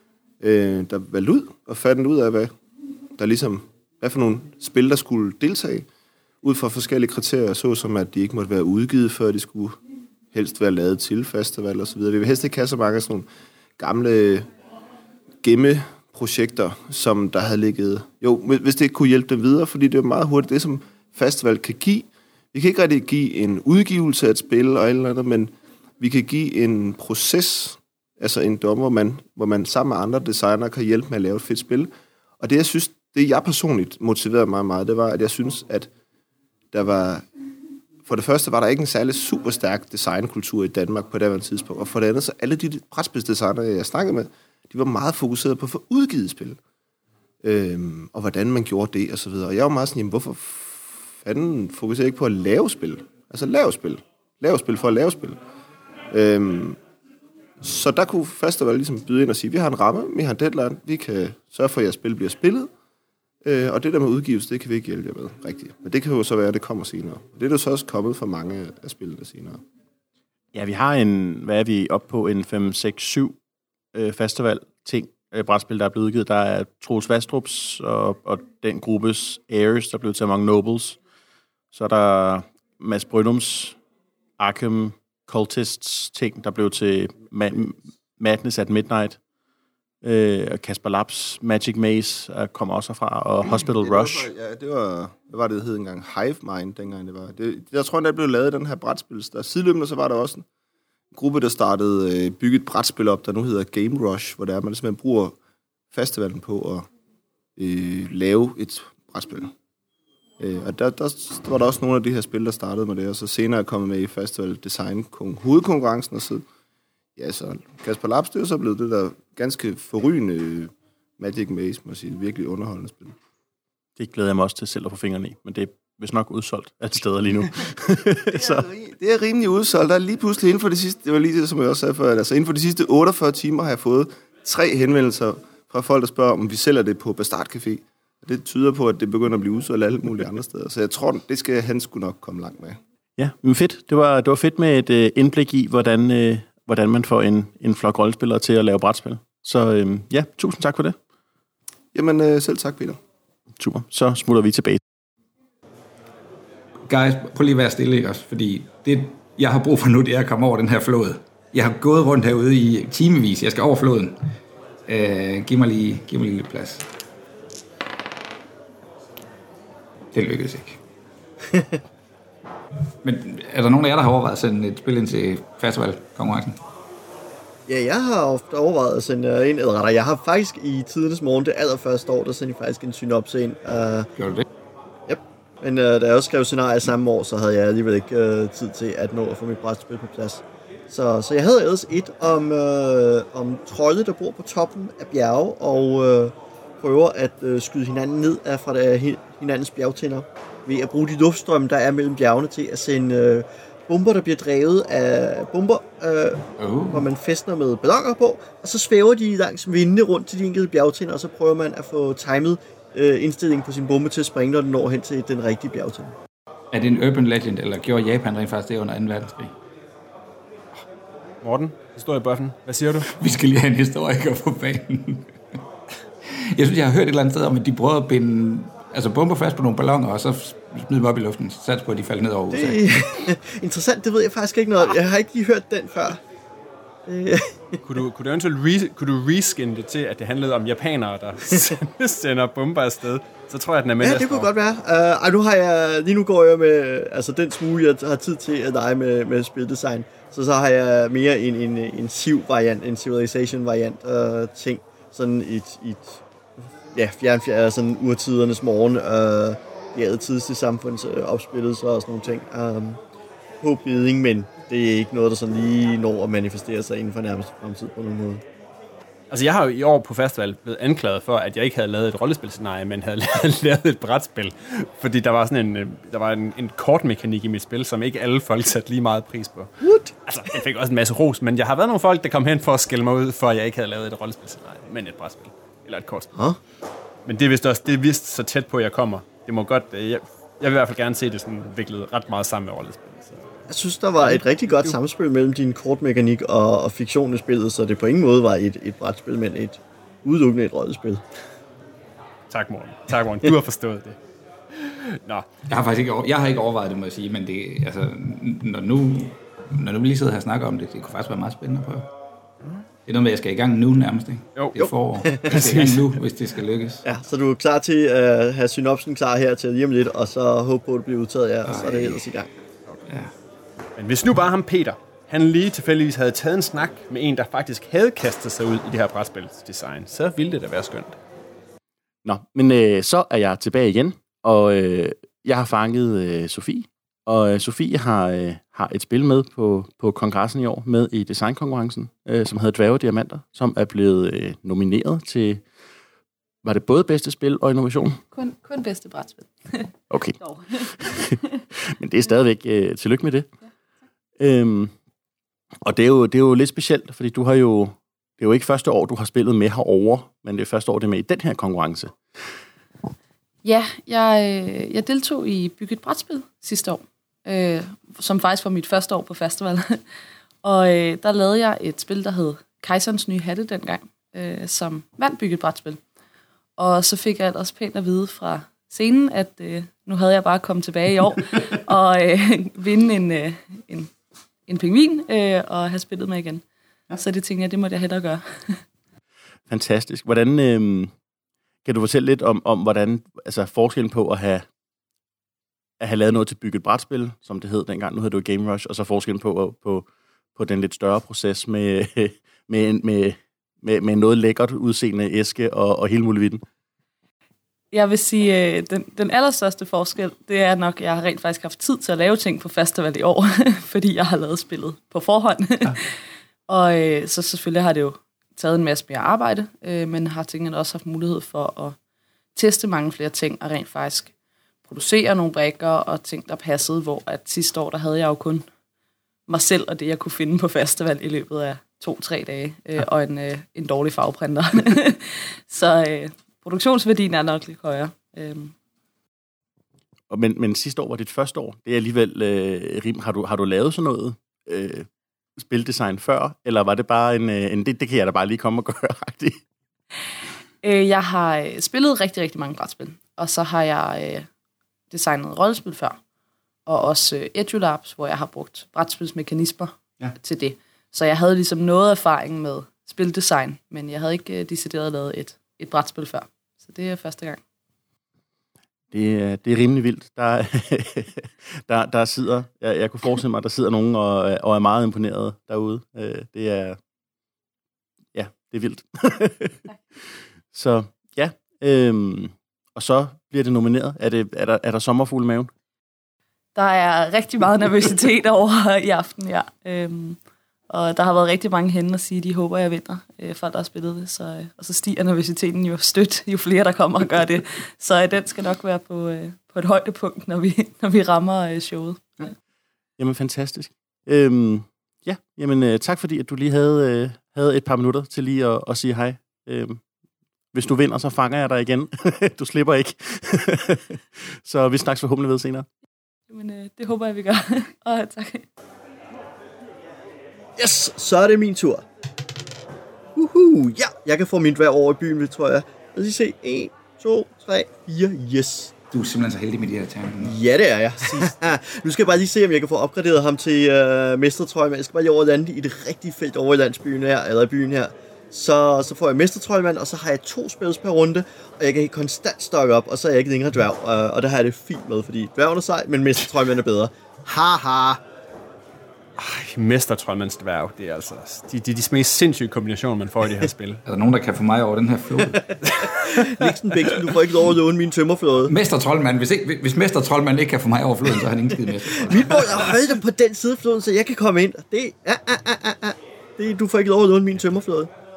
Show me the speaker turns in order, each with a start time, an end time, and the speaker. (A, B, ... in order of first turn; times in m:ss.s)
0:00.4-0:02.5 A
0:03.2-0:05.9 A
0:06.4-0:09.8 A
0:10.3-0:13.3 A
0:13.8-0:14.5 A
0:15.4-0:35.9 A
0:36.7-0:37.2 A
0:38.1-0:46.6 A
0:47.4-0:55.4 A
0:56.1-0:56.8 A
0:57.6-1:02.7 A
1:03.4-1:09.6 A
1:10.5-1:13.4 B
1:13.9-1:21.0 B
1:21.7-1:23.8 B
1:24.4-1:29.2 B
1:30.0-1:34.3 B
1:33.5-1:40.4 A
1:41.1-1:45.4 A
1:45.9-1:46.9 A
1:47.6-1:49.5 A
1:50.4-1:56.4 A
1:57.2-2:03.2 A
2:04.0-2:08.7 B
2:08.3-2:22.8 A
2:23.2-2:31.0 B
2:31.9-2:33.0 A
2:33.6-2:34.8 B
2:36.9-2:44.3 C
2:44.9-2:46.9 C
2:50.1-2:50.8 C
2:53.0-2:56.6 C
2:57.7-3:04.1 D
3:04.2-3:04.5 C
3:05.1-3:36.2 D
3:26.6-3:27.1 C
3:36.7-3:39.6 C
3:41.4-3:43.0 E
3:43.0-3:45.6 C
3:46.6-3:53.3 C
3:52.5-3:56.2 D
3:57.1-3:57.8 D
3:57.8-4:04.5 E
4:04.0-4:16.2 D
4:16.9-4:23.0 D
4:23.6-4:28.4 D
4:29.3-4:39.7 E
4:39.8-4:40.2 D
4:40.2-4:46.3 E
4:47.3-4:53.4 E
4:53.7-5:01.2 D
4:54.2-4:55.0 E
5:02.5-5:04.2 E
5:04.8-5:05.5 E
5:05.7-5:12.1 C
5:13.1-5:17.0 C
5:15.3-5:15.6 D
5:17.0-5:22.5 D
5:21.6-5:22.3 C
5:23.1-5:23.3 C
5:24.0-5:31.2 E
5:32.2-5:45.6 B
5:46.6-5:48.2 B
5:48.3-5:51.2 F
5:50.1-5:53.5 B
5:54.4-5:54.9 B
5:55.8-6:02.2 B
6:03.6-6:10.0 F
6:10.6-6:16.0 F
6:16.8-6:24.1 F
6:24.7-6:28.8 F
6:29.7-6:31.1 B
6:31.8-6:34.6 B
6:36.0-6:46.6 B
6:47.9-6:56.1 F
6:56.7-7:02.0 F
7:02.6-7:04.3 F
7:04.9-7:08.7 F
7:09.5-7:18.7 F
7:20.3-7:29.6 B
7:30.8-7:34.5 F
7:35.1-7:36.2 F
7:36.9-7:47.6 F
7:49.1-7:57.0 B
7:58.4-7:59.8 B
8:00.7-8:05.7 B
8:06.8-8:22.5 F
8:23.2-8:30.0 B
8:30.7-8:35.9 B
8:36.5-8:38.6 F
8:40.8-8:42.1 D
8:43.4-8:48.9 D
8:49.1-8:50.6 C
8:50.4-9:08.2 D
9:09.4-9:14.0 E
9:14.0-9:15.6 C
9:16.2-9:18.7 D
9:18.7-9:23.0 C
9:22.3-9:28.1 D